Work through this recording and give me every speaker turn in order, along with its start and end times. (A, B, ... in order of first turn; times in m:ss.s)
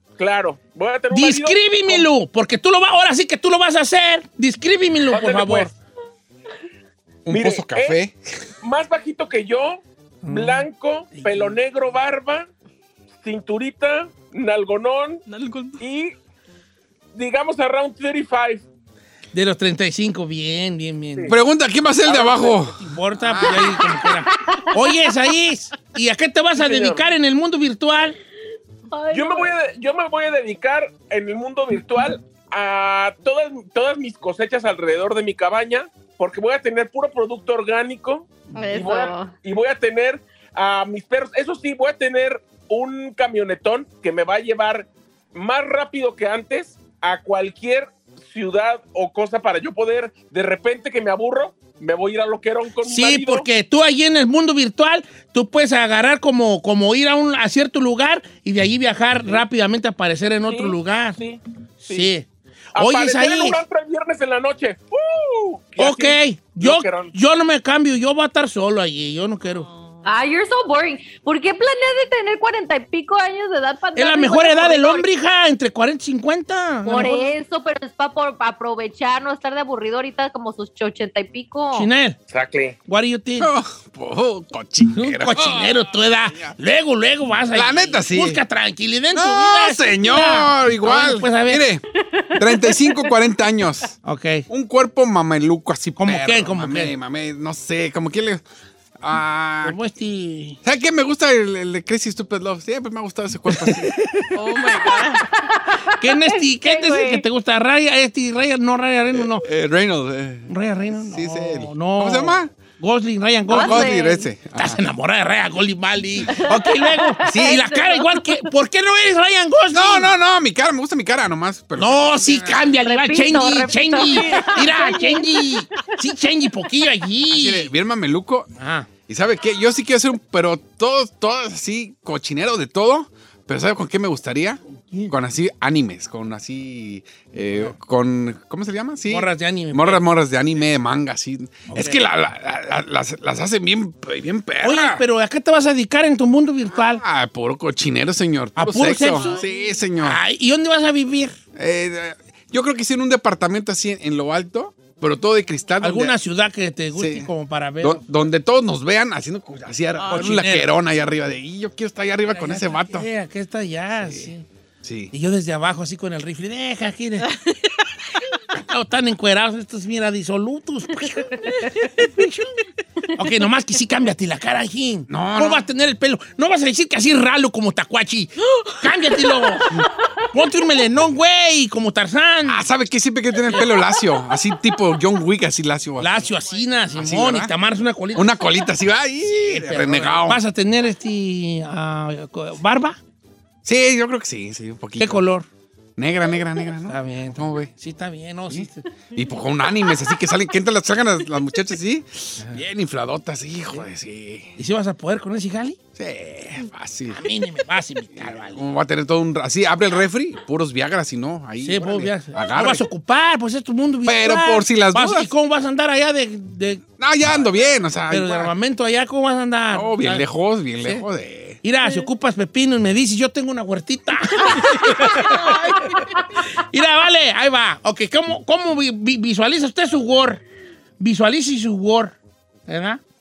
0:00.2-0:02.1 A
0:01.1-0:05.7 B
0:05.1-0:05.7 A
0:07.2-0:08.2 C
0:07.3-0:08.0 A
0:08.6-0:12.5 A
0:10.2-0:11.6 B
0:13.2-0:15.2 A
0:15.3-0:15.8 D
0:15.8-0:16.1 A
0:17.1-0:18.6 A
0:19.3-0:21.3 B
0:21.3-0:23.8 C
0:22.0-0:22.7 A
0:22.8-0:28.2 B
0:24.2-0:24.8 E
0:26.6-0:27.0 A
0:28.9-0:29.5 E
0:29.1-0:53.5 A
0:38.5-0:39.4 E
0:52.8-1:01.2 B
1:00.4-1:02.1 A
1:01.8-1:03.6 B
1:02.8-1:07.1 A
1:05.8-1:09.6 B
1:09.5-1:10.0 D
1:10.0-1:15.0 E
1:14.0-1:17.3 B
1:16.8-1:21.9 E
1:21.7-1:22.2 B
1:22.3-1:22.8 A
1:22.9-1:23.5 B
1:23.4-1:26.5 C
1:24.9-1:31.6 B
1:27.5-1:28.4 C
1:29.1-1:33.9 C
1:32.0-1:33.1 E
1:34.0-1:34.4 B
1:34.5-1:38.4 C
1:36.0-1:36.9 B
1:39.0-1:39.8 C
1:39.6-1:40.6 B
1:40.6-1:44.1 C
1:43.5-1:44.3 B
1:44.3-1:45.2 D
1:45.3-1:47.2 E
1:46.0-1:49.4 B
1:49.1-1:52.5 C
1:50.5-1:53.9 B
1:53.5-1:54.2 E
1:53.5-1:54.8 C
1:54.5-2:00.1 B
1:56.3-1:58.5 E
1:57.3-1:57.6 C
1:59.7-2:02.6 C
2:01.8-2:07.7 B
2:02.8-2:05.6 E
2:07.3-2:08.5 C
2:08.6-2:08.9 B
2:09.1-2:25.0 C
2:19.1-2:20.0 B
2:21.7-2:22.0 B
2:24.6-2:27.0 B
2:26.7-2:30.2 C
2:28.6-2:29.4 B
2:29.1-2:29.8 D
2:30.0-2:31.3 B
2:31.5-2:36.1 C
2:35.8-2:38.0 B
2:36.9-2:37.3 C
2:37.8-2:43.1 C
2:40.0-2:40.3 D
2:40.1-2:40.7 B
2:42.3-2:44.4 B
2:44.0-2:44.3 C
2:44.8-2:45.1 C
2:45.1-2:47.4 B
2:47.3-2:47.7 D
2:48.5-2:52.6 B
2:51.2-2:51.9 E
2:53.1-3:02.6 B
2:55.1-2:55.6 C
2:59.9-3:00.2 E
3:02.4-3:06.3 C
3:06.0-3:08.4 B
3:06.9-3:07.5 C
3:08.1-3:10.4 C
3:09.3-3:13.0 B
3:13.6-3:15.2 C
3:15.0-3:15.5 B
3:16.0-3:17.7 C
3:16.9-3:18.8 B
3:18.5-3:24.5 C
3:24.6-3:25.8 B
3:26.0-3:27.2 C
3:27.1-3:28.6 B
3:28.2-3:32.8 C
3:31.6-3:36.8 B
3:34.0-3:35.3 C
3:37.0-3:38.5 C
3:38.1-3:40.3 B
3:39.7-3:41.6 C
3:40.8-3:41.0 B
3:41.6-3:50.4 B
3:44.4-3:46.6 E
3:45.2-3:45.5 D
3:51.0-3:52.2 B
3:52.7-3:53.0 B